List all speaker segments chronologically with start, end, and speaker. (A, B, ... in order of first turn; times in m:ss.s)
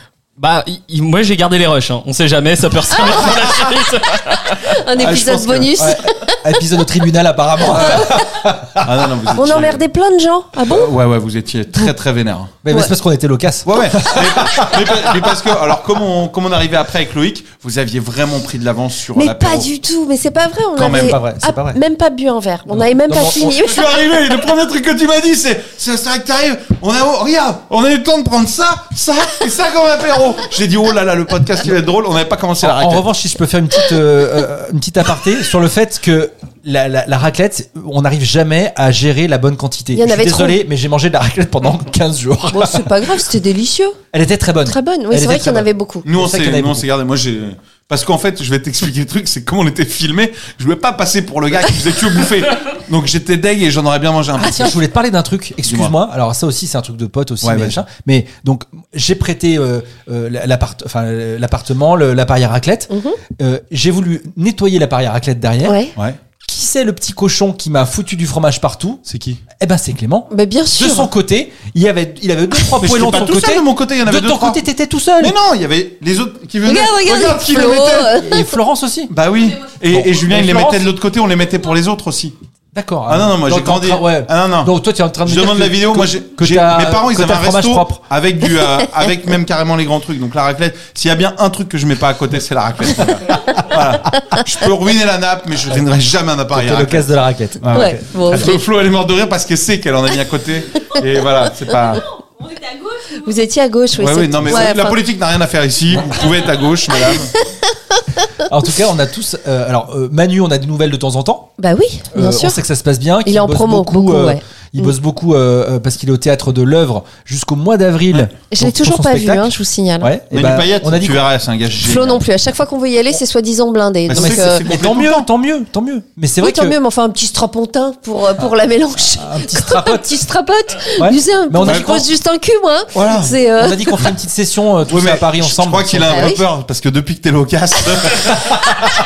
0:00.4-0:04.6 A
0:04.6-0:06.1 B
0:05.0-0:05.9 C
0:05.8-0:08.8 D
0:07.7-0:08.1 B
0:08.8-0:09.8 C
0:09.3-0:10.9 B
0:10.6-0:12.6 C
0:12.6-0:15.3 D
0:13.6-0:19.7 C
0:19.2-0:23.8 B
0:20.8-0:21.2 C
0:20.8-0:21.8 D
0:22.7-0:23.5 D
0:23.4-0:33.1 C
0:32.6-0:42.9 D
0:39.9-0:40.6 B
0:42.5-0:44.0 B
0:44.1-0:46.9 D
0:44.6-0:46.1 B
0:46.0-0:54.8 C
0:54.4-1:05.8 D
0:55.6-0:56.0 C
0:57.4-0:57.8 C
1:02.9-1:03.2 B
1:05.6-1:05.9 B
1:06.5-1:09.0 D
1:09.0-1:09.4 C
1:09.6-1:15.4 D
1:10.3-1:11.1 B
1:12.8-1:14.6 C
1:15.2-1:18.1 C
1:16.6-1:18.5 B
1:18.2-1:19.1 D
1:19.1-1:22.4 C
1:19.9-1:20.9 D
1:22.7-1:28.0 D
1:23.1-1:42.0 C
1:36.5-1:38.5 D
1:37.7-1:38.6 B
1:43.1-1:45.0 B
1:44.0-1:47.3 C
1:48.5-1:51.5 D
1:51.6-1:52.6 B
1:52.1-2:01.2 D
1:53.2-1:55.0 B
1:58.5-2:00.2 B
2:00.3-2:02.3 C
2:01.8-2:04.6 B
2:04.1-2:05.3 C
2:04.1-2:06.8 D
2:06.4-2:14.1 B
2:09.0-2:10.1 D
2:11.0-2:12.1 D
2:11.6-2:12.0 C
2:12.9-2:13.4 C
2:13.6-2:16.3 D
2:14.9-2:18.8 C
2:16.1-2:16.4 B